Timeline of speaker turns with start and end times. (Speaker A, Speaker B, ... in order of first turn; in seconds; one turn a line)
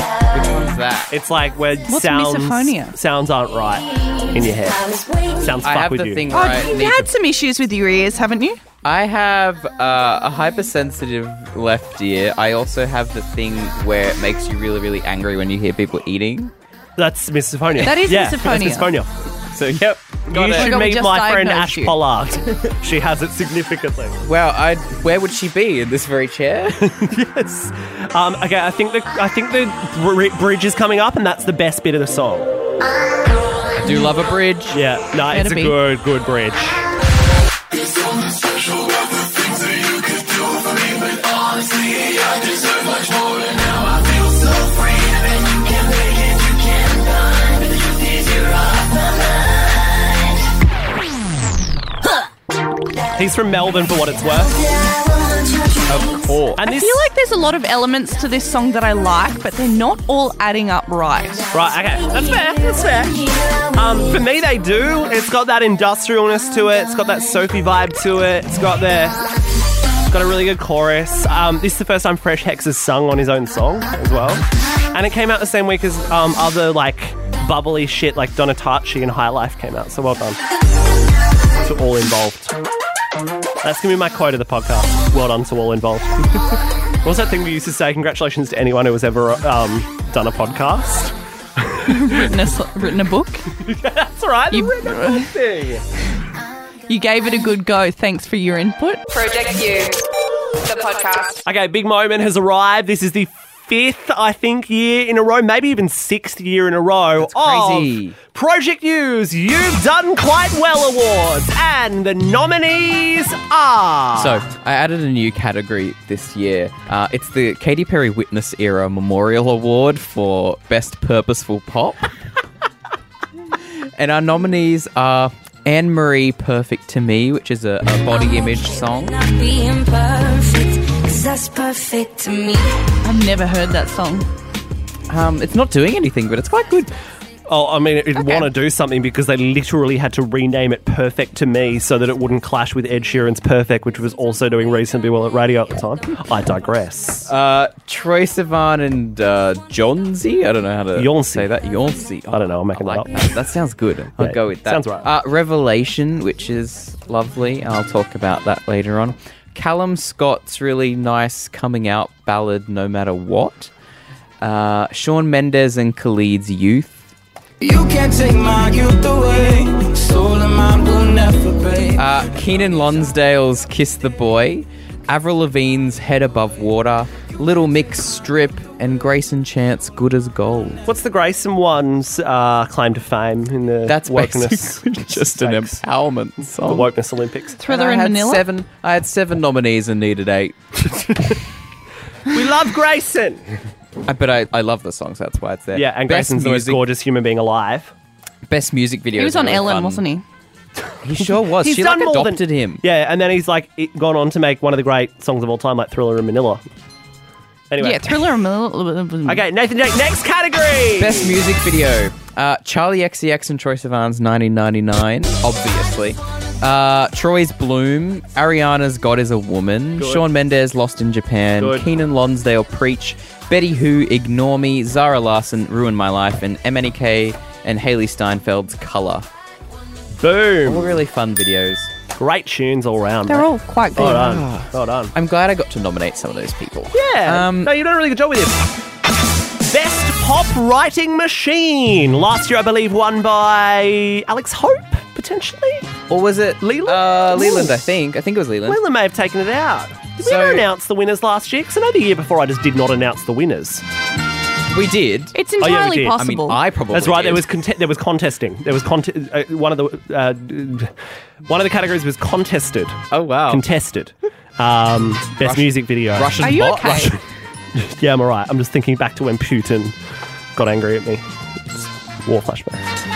Speaker A: 0.3-1.1
Speaker B: 1.1-4.8
Speaker C: 1.9-3.0
Speaker D: 4.0-5.6
Speaker B: 5.4-6.2
Speaker A: 5.6-7.1
Speaker C: 6.3-8.6
Speaker A: 8.8-16.5
Speaker B: 17.0-19.1
Speaker C: 17.8-18.9
Speaker A: 19.5-20.7
Speaker B: 20.3-24.2
Speaker C: 20.5-22.0
Speaker A: 24.2-27.0
Speaker B: 26.8-32.5
Speaker A: 33.8-34.8
Speaker B: 34.7-36.8
Speaker C: 35.3-35.8
Speaker D: 41.5-43.9
Speaker D: 44.5-46.0
Speaker D: 46.8-47.4
Speaker B: 53.1-54.5
Speaker D: 54.4-56.4
Speaker A: 55.9-56.6
Speaker B: 56.6-57.1
Speaker C: 56.6-61.5
Speaker B: 61.5-63.2
Speaker D: 62.0-64.1
Speaker B: 63.8-69.2
Speaker B: 70.1-80.4
Speaker B: 81.6-82.6
Speaker B: 83.6-86.4
Speaker B: 87.0-92.2
Speaker C: 91.9-93.5
Speaker B: 93.6-95.8
Speaker C: 94.5-95.3
Speaker C: 96.9-99.2
Speaker B: 101.4-114.4
Speaker A: 107.2-108.2
Speaker A: 114.2-122.1
Speaker A: 124.0-129.2
Speaker D: 128.1-132.8
Speaker C: 133.0-134.3
Speaker A: 135.1-136.9
Speaker B: 137.5-147.3
Speaker C: 138.2-138.5
Speaker A: 147.2-163.7
Speaker B: 150.9-151.5
Speaker B: 152.3-153.3
Speaker B: 154.2-155.1
Speaker A: 164.4-167.1
Speaker E: 167.6-172.1
Speaker A: 171.9-180.8
Speaker B: 180.9-185.8
Speaker A: 183.9-186.9
Speaker B: 186.6-187.6
Speaker C: 187.6-188.4
Speaker A: 187.7-190.6
Speaker B: 192.3-193.6
Speaker A: 194.1-196.8
Speaker B: 195.7-197.9
Speaker A: 198.5-200.0
Speaker C: 199.2-200.2
Speaker A: 201.0-202.8
Speaker B: 201.2-206.6
Speaker B: 207.7-208.3
Speaker C: 207.8-209.4
Speaker B: 209.2-211.4
Speaker A: 211.0-229.3
Speaker B: 220.0-220.3
Speaker B: 221.6-221.9
Speaker B: 230.2-231.0
Speaker A: 230.6-231.9
Speaker B: 232.2-235.1
Speaker C: 233.3-234.3
Speaker A: 234.0-237.8
Speaker B: 236.9-238.7
Speaker B: 239.7-245.9
Speaker A: 246.1-248.8
Speaker B: 246.6-247.8
Speaker B: 248.6-253.8
Speaker A: 250.2-250.7
Speaker A: 254.7-255.4
Speaker C: 255.3-256.6
Speaker B: 255.6-256.2
Speaker A: 256.2-257.5
Speaker B: 256.9-260.9
Speaker B: 261.5-267.0
Speaker A: 263.1-263.6
Speaker A: 265.4-267.1
Speaker C: 266.4-267.2
Speaker B: 267.8-270.0
Speaker B: 270.5-271.2
Speaker B: 271.8-272.9